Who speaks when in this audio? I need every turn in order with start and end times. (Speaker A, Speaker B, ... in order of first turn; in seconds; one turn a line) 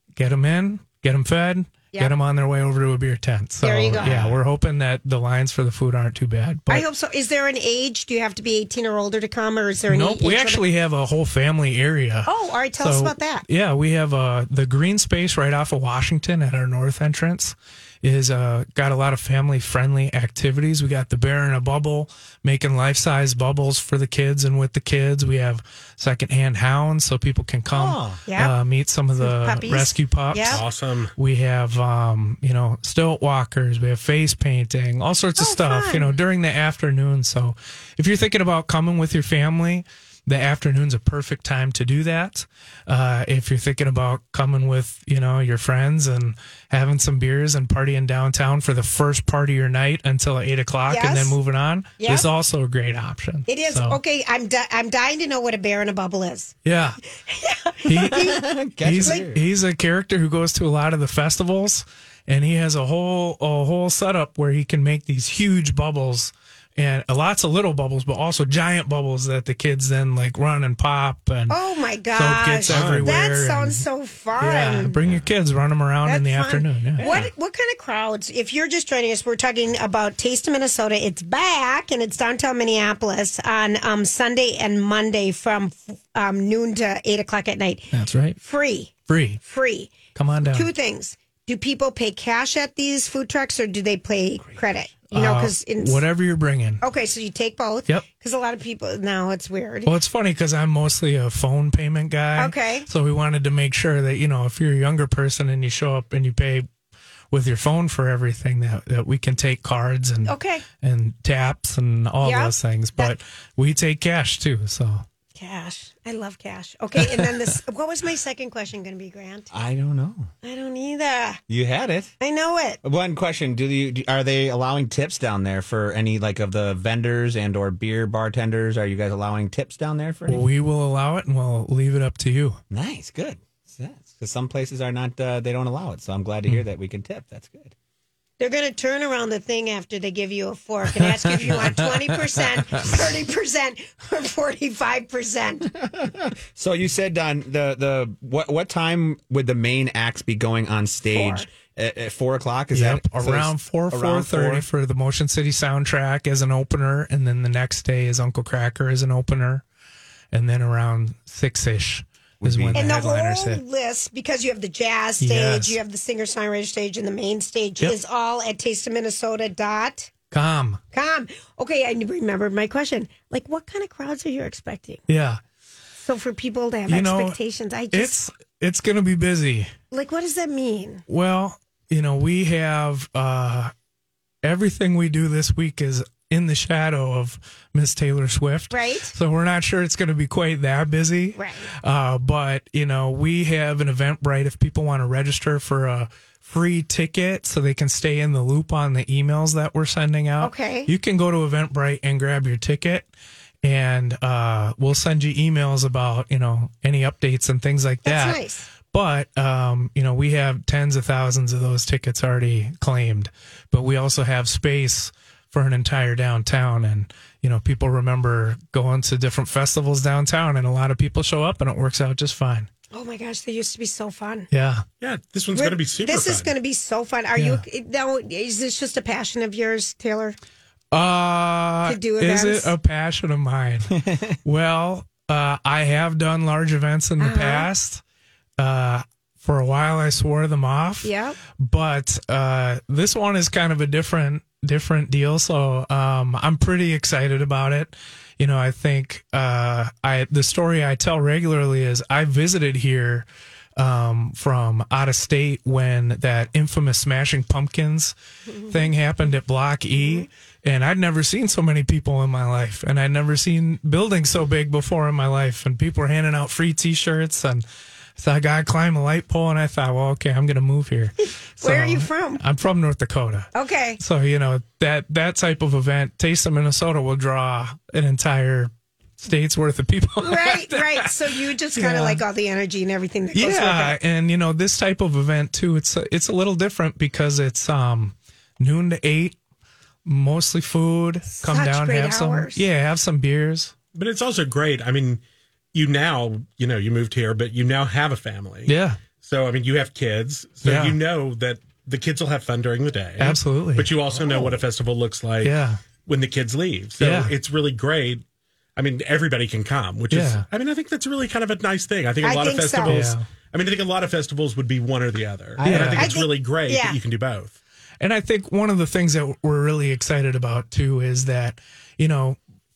Speaker A: 0.2-6.9
Speaker B: 3.6-4.4
Speaker B: 6.7-10.7
Speaker A: 9.9-12.3
Speaker B: 12.2-13.4
Speaker A: 12.8-54.0
Speaker C: 27.7-28.2
Speaker B: 28.3-28.6
Speaker B: 29.2-30.6
Speaker D: 30.4-31.1
Speaker B: 35.4-36.2
Speaker B: 50.9-51.4
Speaker B: 52.0-52.3
Speaker B: 53.5-56.5
Speaker A: 56.6-57.0
Speaker B: 57.2-58.5
Speaker A: 57.9-71.6
Speaker C: 58.1-59.4
Speaker B: 59.0-59.3
Speaker B: 71.5-75.0
Speaker A: 72.1-73.8
Speaker D: 72.7-73.1
Speaker A: 74.4-77.2
Speaker B: 76.0-96.0
Speaker D: 77.0-77.3
Speaker A: 87.9-88.4
Speaker A: 89.1-89.4
Speaker A: 90.1-90.7
Speaker A: 95.1-96.8
Speaker B: 96.8-99.9
Speaker A: 99.8-106.7
Speaker B: 102.4-102.9
Speaker A: 107.3-115.0
Speaker B: 110.2-110.6
Speaker B: 112.2-113.2
Speaker B: 115.4-119.5
Speaker C: 119.5-120.3
Speaker B: 120.4-121.4
Speaker C: 121.5-122.1
Speaker B: 122.2-122.8
Speaker C: 122.8-130.5
Speaker A: 130.3-132.6
Speaker C: 132.7-137.7
Speaker B: 138.4-145.7
Speaker C: 145.7-154.7
Speaker B: 151.1-151.5
Speaker A: 152.7-159.6
Speaker A: 160.3-163.6
Speaker C: 162.4-162.8
Speaker B: 162.7-170.1
Speaker A: 165.2-165.8
Speaker A: 170.3-170.8
Speaker B: 170.9-175.0
Speaker A: 175.1-175.4
Speaker B: 176.0-178.2
Speaker A: 176.9-177.4
Speaker A: 177.9-179.7
Speaker B: 179.9-181.0
Speaker A: 181.1-183.7
Speaker A: 184.4-203.1
Speaker B: 188.7-189.2
Speaker B: 191.3-191.7
Speaker B: 200.4-200.9
Speaker A: 203.6-222.7
Speaker B: 208.0-208.7
Speaker B: 222.9-224.5
Speaker A: 224.5-224.8
Speaker D: 225.0-226.5
Speaker B: 225.5-230.4
Speaker A: 227.4-227.6
Speaker A: 230.9-238.0
Speaker B: 231.8-232.7
Speaker B: 237.2-237.7
Speaker A: 238.6-258.1
Speaker B: 241.0-241.4
Speaker B: 258.5-258.9
Speaker A: 258.7-267.6
Speaker B: 259.9-260.3
Speaker A: 268.2-281.1
Speaker B: 271.6-272.4
Speaker B: 273.5-274.0
Speaker B: 280.2-284.0
Speaker A: 281.8-282.2
Speaker A: 283.3-289.4
Speaker A: 290.1-293.7
Speaker B: 291.3-292.7
Speaker D: 293.9-295.2
Speaker D: 295.7-308.2
Speaker A: 298.7-299.0
Speaker A: 300.6-301.0
Speaker A: 303.2-304.0
Speaker A: 305.4-305.9
Speaker A: 307.0-307.4
Speaker D: 308.8-317.6
Speaker A: 310.1-310.5
Speaker B: 312.2-313.0
Speaker A: 312.8-313.3
Speaker A: 315.6-316.1
Speaker B: 315.8-317.0
Speaker A: 318.0-322.4